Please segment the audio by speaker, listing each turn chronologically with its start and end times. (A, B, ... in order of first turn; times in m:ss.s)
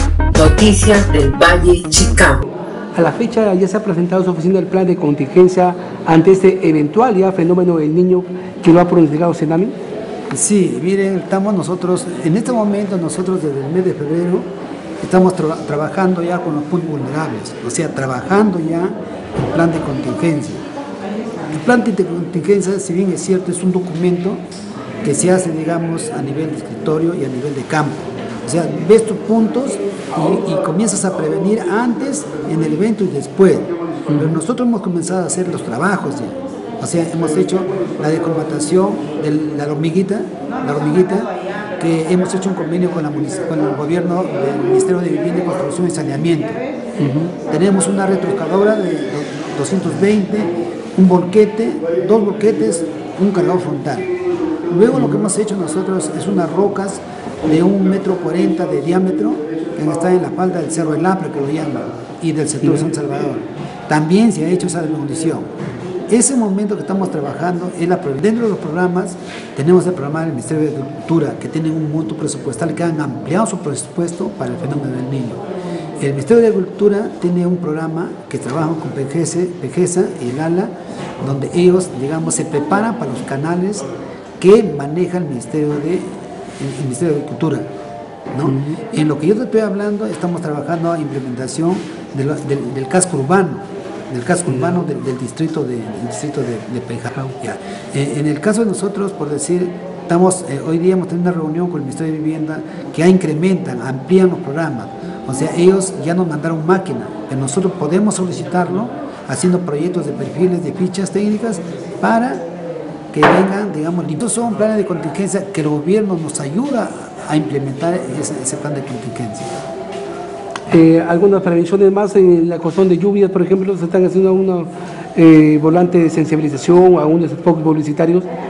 0:00.3-0:02.4 A
0:02.9-0:09.7 B
0:10.3-0:14.5 C
0:15.0-0:19.0 C
0:19.5-0:20.6 C
0:21.5-0:24.4 C
0:25.0-0:46.6 C
0:34.1-0:34.4 B
0:47.0-0:47.3 B
0:47.5-0:54.1 C
0:54.7-1:05.5 C
0:54.9-0:55.2 B
1:06.1-1:15.4 C
1:16.0-1:23.9 C
1:24.4-1:26.1 C
1:26.6-1:27.6 C
1:28.3-1:52.4 C
1:28.4-1:28.8 B
1:53.1-1:59.5 C
2:00.7-2:08.3 B